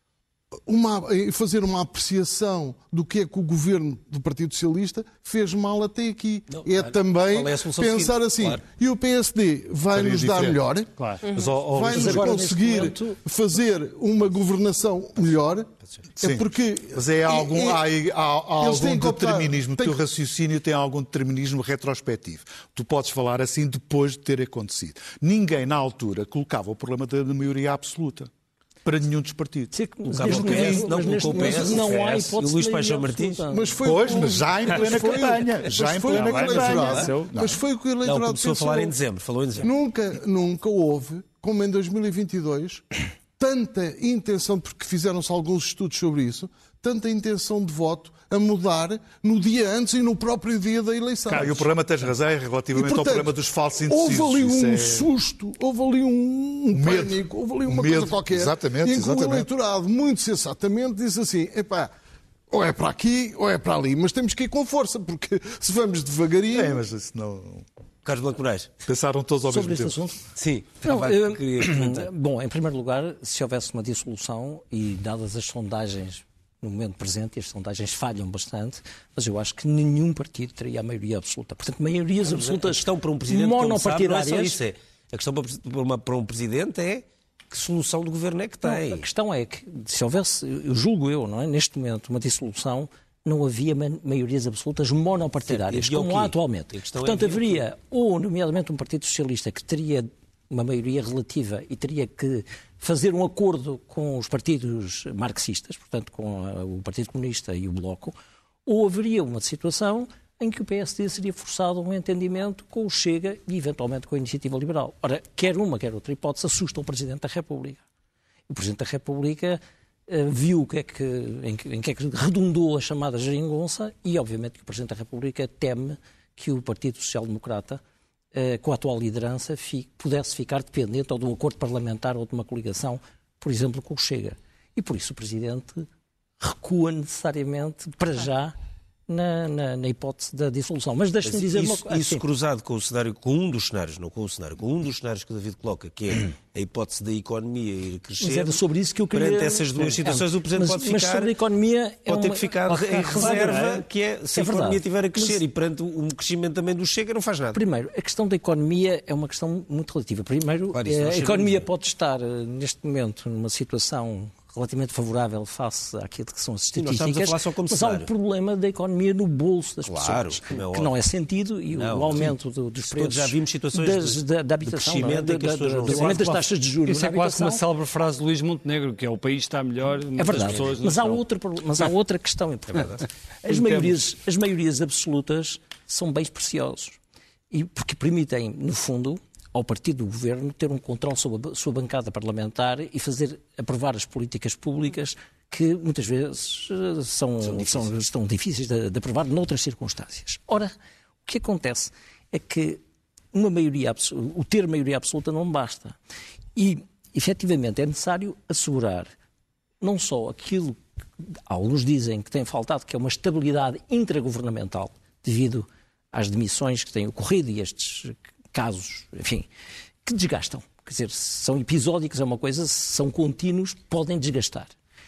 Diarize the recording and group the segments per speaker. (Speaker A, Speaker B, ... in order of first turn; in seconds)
Speaker A: 0.7-10.9, 11.6-17.8, 18.6-20.0, 33.5-38.9, 39.6-42.9, 43.4-51.7, 52.8-61.9, 62.5-66.8
Speaker B: 6.5-8.7, 30.1-33.5, 38.0-39.7, 68.0-68.8, 70.3-72.1, 82.2-89.1, 95.5-97.6, 141.2-151.4, 152.1-157.6, 160.7-161.6, 166.7-168.1, 169.8-170.9, 171.7-172.4, 172.9-176.5, 180.3-180.7, 182.7-183.0, 197.4-197.9
Speaker C: 9.9-10.6, 11.3-12.4, 16.2-28.3, 28.8-30.9, 33.8-37.6, 51.3-55.1, 56.7-59.5, 66.5-67.7, 68.9-70.1
Speaker D: 11.0-11.2, 31.5-32.3, 34.7-37.3, 51.3-51.6, 152.9-153.8, 175.9-176.3, 176.9-181.2, 183.5-184.0
Speaker E: 11.9-13.2, 29.7-33.8, 69.5-70.3, 70.8-84.6, 88.6-117.8, 118.5-127.8, 128.3-135.9, 136.4-138.6, 139.1-142.2, 148.2-155.4, 157.5-177.6, 180.2-187.0, 187.5-200.7, 201.3-202.8, 203.3-206.0, 206.6-209.1, 209.8-219.5, 220.1-224.7